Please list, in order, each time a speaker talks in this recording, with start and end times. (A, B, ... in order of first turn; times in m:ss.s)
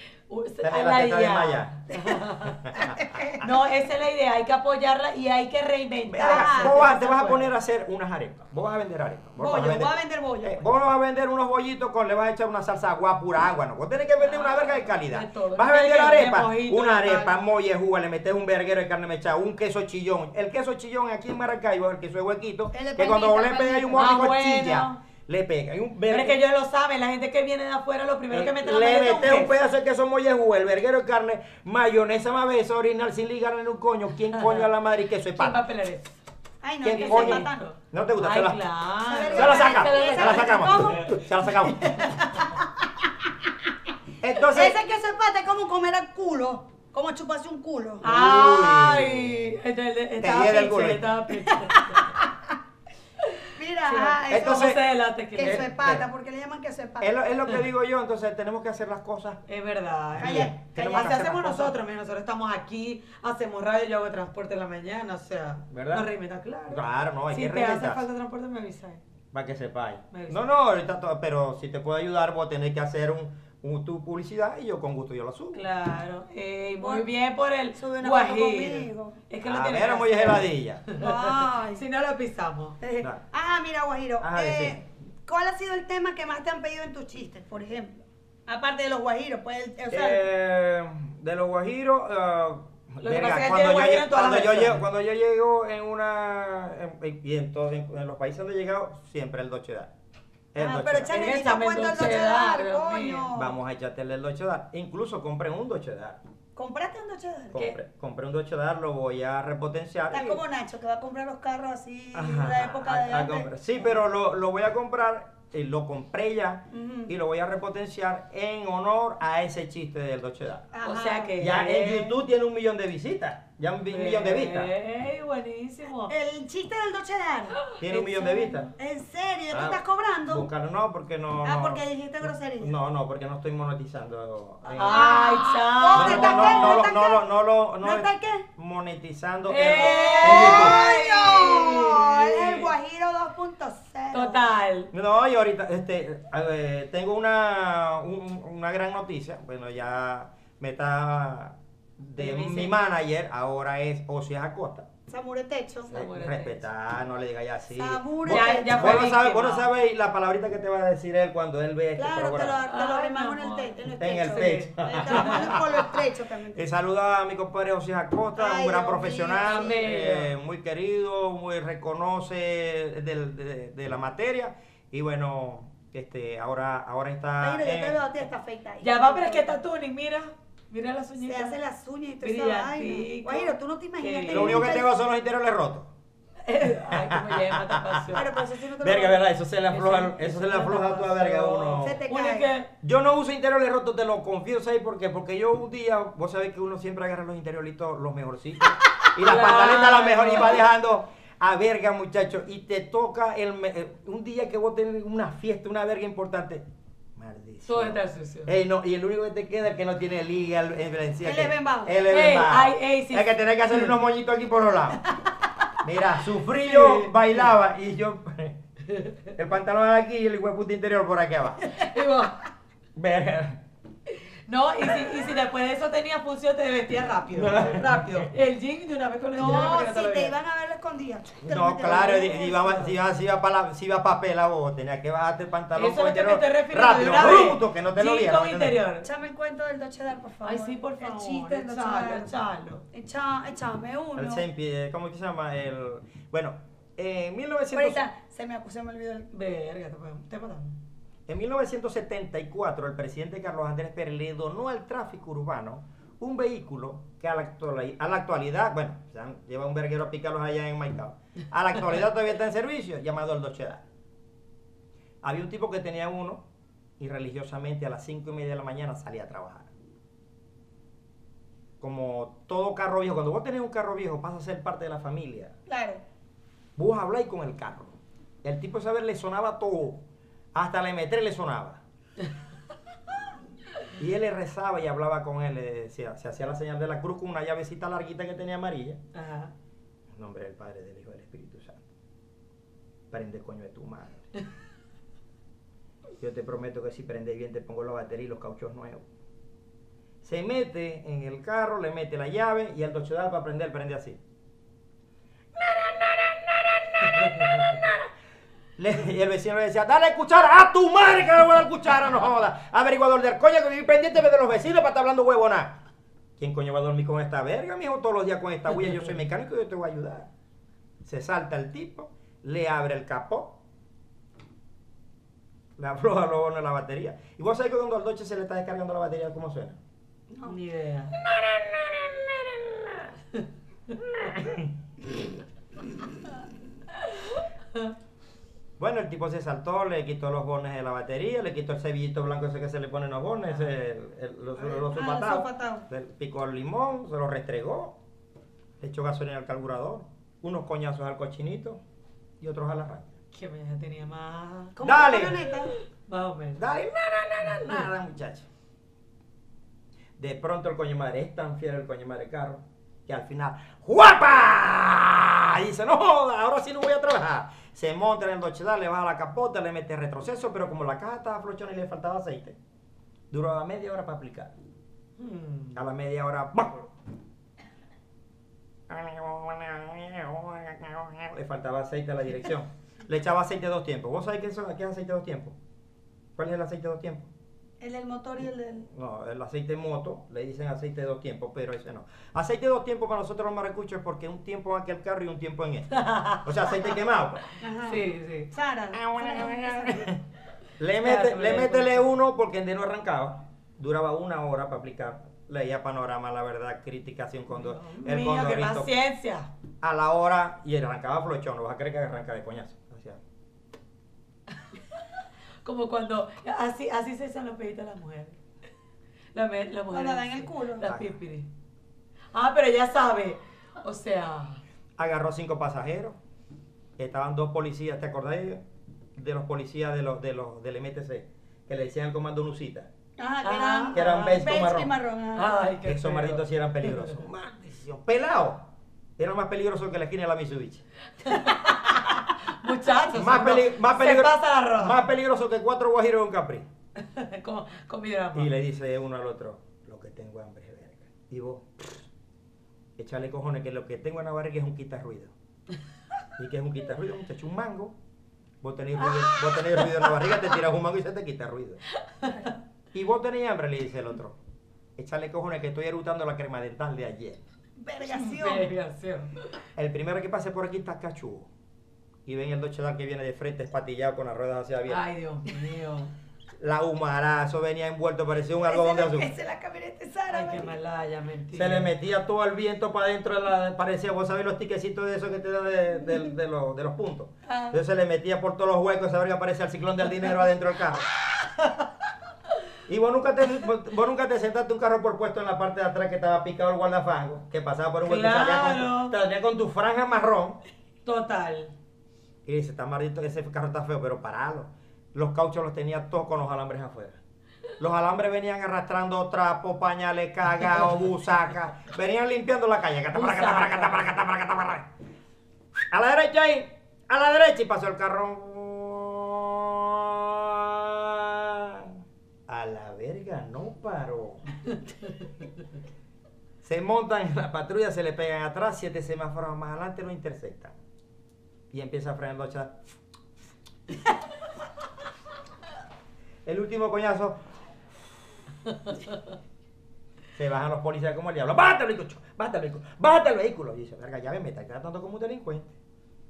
0:00.3-0:02.7 A
0:00.6-0:01.8 B
0:02.5-0:03.0 B
0:02.8-0:03.4 C
0:03.4-0:07.5 A
0:06.1-0:26.4 B
0:06.2-0:06.8 C
0:09.4-0:10.6 C
0:14.2-0:17.4 A
0:22.7-0:24.2 C
0:23.9-0:25.0 A
0:26.1-0:29.5 A
0:28.3-0:35.6 B
0:34.3-0:34.7 A
0:35.4-0:36.2 A
0:36.6-0:37.7 C
0:36.8-0:38.6 B
0:36.9-0:41.0 A
0:39.1-0:41.2 C
0:39.3-0:42.1 B
0:42.0-0:42.5 C
0:44.2-0:44.8 B
0:44.5-0:48.0 C
0:48.0-0:52.1 A
0:48.0-0:49.6 B
0:50.2-0:51.1 B
0:51.7-0:52.0 C
0:53.2-0:55.7 A
0:53.6-0:54.8 C
0:54.3-0:54.8 B
0:55.4-0:57.1 C
0:55.4-0:56.0 B
0:57.0-0:59.4 B
0:59.5-1:09.0 A
1:00.2-1:01.7 B
1:00.2-1:01.4 C
1:05.7-1:06.1 B
1:06.7-1:08.1 B
1:09.3-1:15.6 B
1:10.1-1:10.4 A
1:15.5-1:22.8 A
1:16.8-1:17.1 C
1:17.8-1:19.2 C
1:19.4-1:20.9 B
1:21.0-1:21.8 C
1:22.8-1:30.2 C
1:24.2-1:24.8 B
1:29.9-1:39.9 B
1:33.0-1:34.8 A
1:40.5-1:41.3 B
1:40.6-1:43.6 C
1:41.1-1:43.3 A
1:43.3-1:46.2 B
1:46.6-1:47.6 C
1:47.5-1:50.4 B
1:50.1-1:53.5 C
1:52.1-2:00.7 B
1:56.7-1:57.1 C
2:00.7-2:01.4 C
2:00.8-2:02.2 A
2:01.4-2:04.7 B
2:03.9-2:06.1 A
2:06.1-2:07.6 C
2:07.7-2:08.7 A
2:07.8-2:08.7 B
2:08.8-2:10.5 C
2:09.5-2:11.8 B
2:11.4-2:12.7 C
2:12.6-2:15.2 B
2:14.7-2:16.9 A
2:14.8-2:17.2 C
2:16.0-2:20.9 B
2:17.8-2:18.4 C
2:19.5-2:22.7 A
2:19.7-2:24.5 C
2:24.1-2:24.9 A
2:24.9-2:34.9 B
2:32.2-2:32.8 A
2:35.1-2:35.9 C
2:35.9-2:36.6 A
2:35.9-2:42.6 B
2:37.8-2:39.1 C
2:38.3-2:39.7 A
2:42.0-2:46.6 C
2:42.7-2:45.5 A
2:44.0-2:46.0 B
2:46.5-2:58.0 B
2:48.4-2:49.8 C
2:49.4-2:50.3 A
2:57.4-2:59.6 C
2:58.8-3:01.6 A
3:01.2-3:04.9 C
3:02.2-3:04.6 A
3:04.3-3:05.9 B
3:06.5-3:08.4 A
3:06.9-3:12.0 B
3:08.1-3:09.2 C
3:09.7-3:12.7 A
3:11.8-3:12.5 C
3:12.8-3:26.6 B
3:19.2-3:20.6 A
3:27.2-3:35.0 B
3:27.7-3:28.5 A
3:31.2-3:32.0 C
3:32.1-3:33.9 A
3:35.8-3:38.6 B
3:36.6-3:37.1 A
3:38.9-3:39.2 A
3:39.4-3:41.7 B
3:41.7-3:42.4 A
3:43.0-3:43.6 B
3:44.5-3:50.3 A
3:47.4-3:48.3 B
3:49.4-3:52.9 C
3:51.4-3:58.8 B
3:55.8-3:59.1 A
3:59.0-4:02.4 C
4:00.4-4:02.8 A
4:02.9-4:04.4 C
4:04.2-4:08.0 B
4:07.7-4:09.3 C
4:09.3-4:10.8 A
4:11.3-4:23.8 B
4:25.2-4:26.4 B
4:27.0-4:29.7 B
4:31.8-4:35.5 B
4:35.7-4:36.0 C
4:36.8-4:40.0 B
4:40.5-4:41.8 B
4:44.0-4:49.0 B
4:49.1-4:49.5 A
4:50.1-4:51.8 B
4:53.1-4:54.3 B
4:56.2-4:59.1 B
5:00.2-5:04.2 B
5:05.6-5:08.1 B
5:08.8-5:15.8 B
5:16.4-5:20.3 B
5:21.0-5:23.6 B
5:25.8-5:29.8 B
5:30.4-5:31.2 A
5:31.2-5:33.1 B
5:34.0-5:34.7 B
5:38.8-5:48.0 B
5:44.6-5:45.9 C
5:48.8-5:51.8 B
5:52.4-5:53.1 B
5:53.3-5:54.8 A
5:54.8-5:55.7 C
5:54.8-5:55.5 B
5:56.1-5:56.6 A
5:56.6-5:58.5 B
6:00.2-6:12.6 B
6:13.3-6:14.5 B
6:15.2-6:15.8 A
6:15.8-6:16.9 B
6:18.9-6:25.6 B
6:26.4-6:27.3 B
6:27.8-6:28.9 C
6:28.9-6:37.4 B
6:35.9-6:36.8 A
6:37.6-6:40.1 C
6:37.8-6:38.5 A
6:38.9-6:40.2 B
6:40.8-6:48.9 B
6:41.0-6:42.1 A
6:47.6-6:49.5 A
6:49.8-6:53.2 B
6:55.6-6:58.4 A
6:59.3-7:01.5 A
6:59.9-7:00.9 C
7:00.9-7:01.1 B
7:02.3-7:04.6 A
7:05.0-7:06.2 B
7:07.0-7:08.6 B
7:09.2-7:12.9 B
7:13.2-7:15.6 C
7:13.4-7:14.4 A
7:13.9-7:14.9 B
7:15.4-7:16.4 A
7:15.9-7:18.7 B
7:19.2-7:20.8 B
7:21.2-7:25.0 A
7:23.1-7:26.7 B
7:27.0-7:28.5 A
7:28.4-7:32.0 B
7:33.0-7:35.3 B
7:36.4-7:38.0 B
7:38.6-7:41.8 B
7:39.2-7:40.0 A
7:42.0-7:42.5 A
7:42.9-7:44.4 B
7:45.0-7:47.4 B
7:47.8-7:48.7 C
7:48.0-7:49.4 A
7:49.8-7:51.5 B
7:52.3-7:55.0 B
7:54.9-7:56.1 A
7:56.6-7:59.3 B
7:58.6-8:00.7 C
8:00.3-8:01.9 A
8:01.5-8:11.1 B
8:07.5-8:07.8 C
8:11.6-8:11.8 A
8:12.9-8:20.6 B
8:18.0-8:19.2 A
8:21.0-8:21.7 A
8:22.4-8:27.2 B
8:27.8-8:34.9 B
8:33.1-8:34.1 A
8:35.8-8:44.4 B
8:46.6-8:50.8 B
8:51.7-8:52.8 B
8:56.4-8:57.4 B
9:00.4-9:05.7 B